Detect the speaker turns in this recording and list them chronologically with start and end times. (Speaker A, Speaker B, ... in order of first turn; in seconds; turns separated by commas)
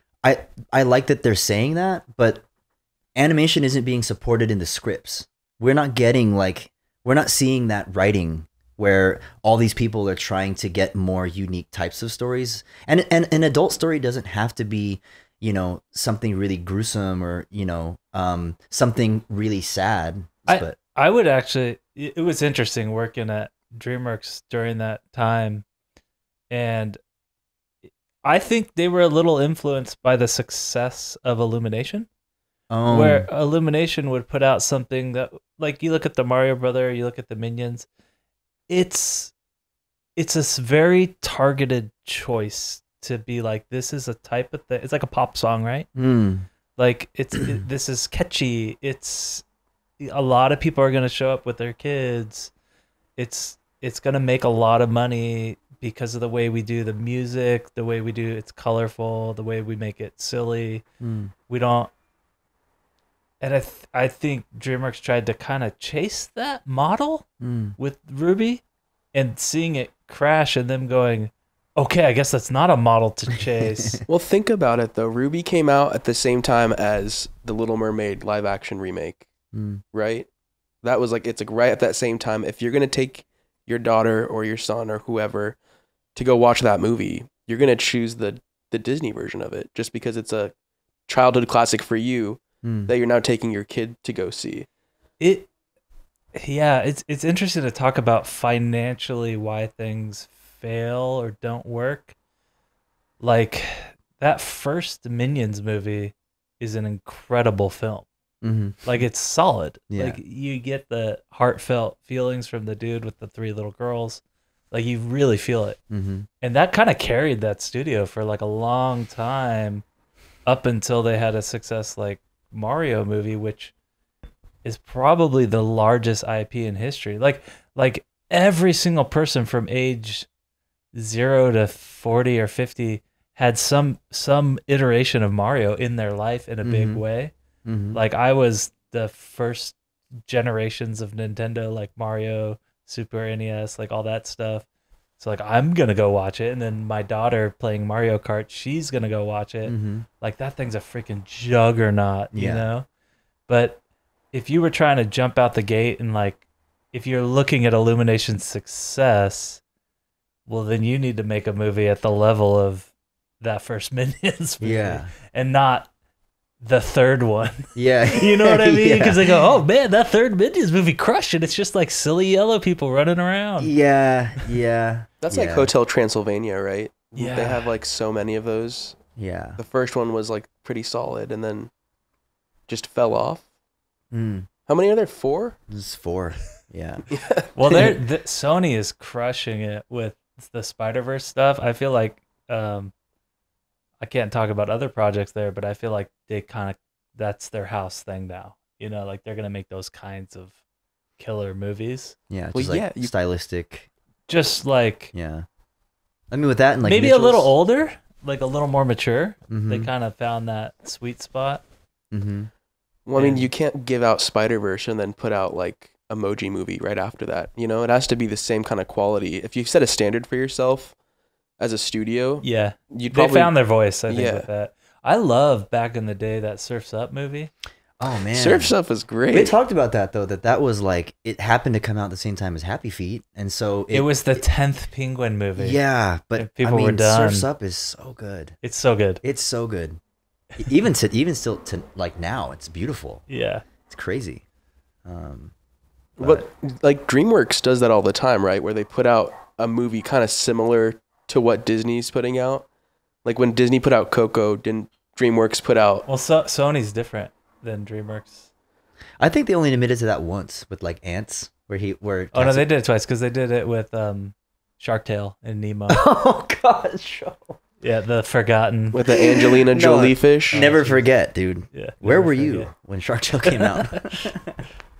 Speaker A: 0.2-2.4, Speaker A: 3.1-20.8, Speaker B: 20.5-25.6, Speaker B: 26.5-27.0, Speaker B: 27.9-32.1, Speaker A: 32.7-33.2, Speaker B: 32.9-37.9, Speaker B: 38.7-39.3, Speaker B: 40.1-45.9, Speaker A: 45.9-46.5, Speaker B: 46.8-49.4, Speaker B: 50.0-52.5, Speaker B: 53.2-60.8, Speaker A: 61.0-61.3, Speaker B: 61.5-61.9, Speaker B: 63.4-68.6, Speaker A: 67.4-67.8, Speaker B: 69.1-74.0, Speaker A: 73.8-74.0, Speaker C: 74.1-79.3, Speaker A: 79.5-79.8, Speaker C: 79.9-80.3, Speaker C: 80.8-85.6, Speaker C: 86.1-90.5, Speaker C: 91.1-94.7, Speaker A: 92.6-92.9, Speaker B: 95.2-95.5, Speaker B: 96.3-102.1, Speaker B: 103.2-108.1, Speaker A: 108.4-108.8, Speaker B: 108.8-115.8, Speaker A: 109.9-110.2, Speaker A: 115.9-116.3, Speaker B: 116.4-119.8, Speaker B: 120.5-123.7, Speaker B: 124.6-130.3, Speaker B: 130.9-137.3, Speaker A: 136.6-137.0, Speaker A: 137.6-138.0, Speaker B: 137.9-144.7, Speaker B: 145.2-152.9, Speaker A: 149.7-150.1, Speaker A: 152.3-152.7, Speaker B: 153.5-153.8, Speaker B: 154.3-159.6, Speaker B: 160.4-165.9, Speaker A: 164.6-165.1, Speaker B: 166.6-173.7, Speaker A: 167.7-169.4, Speaker A: 173.6-175.7, Speaker C: 175.2-179.0, Speaker B: 177.2-177.7, Speaker A: 179.2-179.6, Speaker C: 179.6-181.7, Speaker C: 182.7-183.4, Speaker A: 184.1-184.5, Speaker C: 184.7-185.6, Speaker A: 185.7-187.0, Speaker C: 187.1-187.9, Speaker B: 187.5-192.9, Speaker B: 194.0-200.6, Speaker B: 201.2-202.2, Speaker A: 202.3-203.9, Speaker C: 202.5-203.1, Speaker B: 204.3-205.1, Speaker A: 205.1-205.5, Speaker A: 206.3-207.5, Speaker B: 206.8-211.6, Speaker A: 209.5-209.9, Speaker A: 212.1-212.5, Speaker C: 213.1-220.9, Speaker B: 213.2-213.5, Speaker C: 221.6-223.5, Speaker B: 222.4-227.5, Speaker C: 224.1-224.5, Speaker A: 228.0-228.7, Speaker C: 228.3-229.5, Speaker A: 229.3-234.4, Speaker B: 233.9-235.8, Speaker A: 235.6-238.6, Speaker B: 236.3-237.5, Speaker B: 238.6-239.2, Speaker A: 239.2-240.0, Speaker A: 240.6-243.2, Speaker B: 243.3-243.6, Speaker A: 243.9-244.4, Speaker A: 245.1-245.5, Speaker C: 246.2-252.7, Speaker A: 246.2-246.4, Speaker C: 253.2-256.0, Speaker B: 256.1-258.5, Speaker A: 259.2-262.7, Speaker B: 262.3-266.0, Speaker A: 265.9-267.6, Speaker B: 267.8-269.0, Speaker C: 268.9-270.6, Speaker A: 269.1-274.6, Speaker B: 270.5-271.1, Speaker B: 271.7-272.7, Speaker B: 273.4-274.3